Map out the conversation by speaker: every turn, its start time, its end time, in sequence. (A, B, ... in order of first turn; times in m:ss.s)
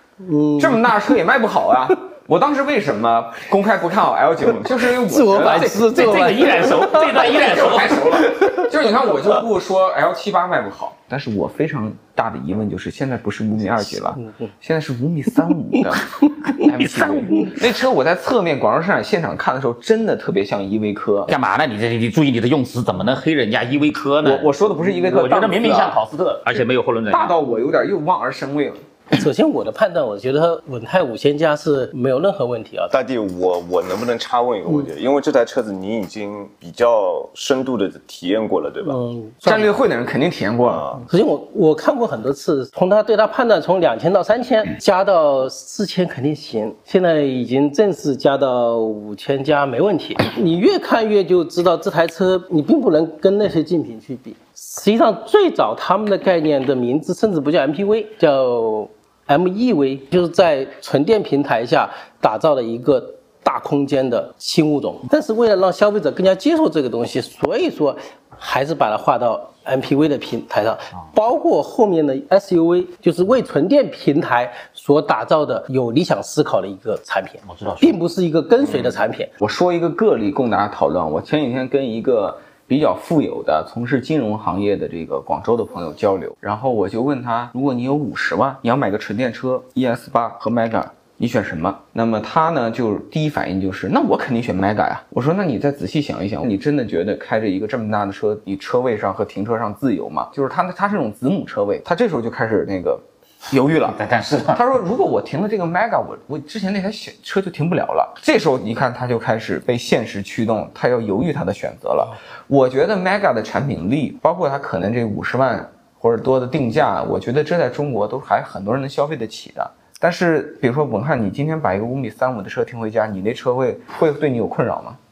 0:00.2-0:01.0 A
0:00.6-0:06.2 B
0:05.0-0:07.3 A
0:05.3-0:08.3 C
0:06.9-0:21.3 B
0:14.2-0:14.5 A
0:16.6-0:17.6 C
0:21.3-0:27.4 C
0:24.2-0:26.0 B
0:27.1-0:28.8 B
0:29.1-0:32.9 A
0:32.9-0:39.0 D
0:38.9-0:39.7 A
0:39.4-0:40.9 B
0:40.6-0:41.0 D
0:41.1-1:19.3 A
1:17.4-1:18.0 C
1:19.4-1:44.0 B
1:43.9-1:44.6 C
1:44.5-2:05.0 B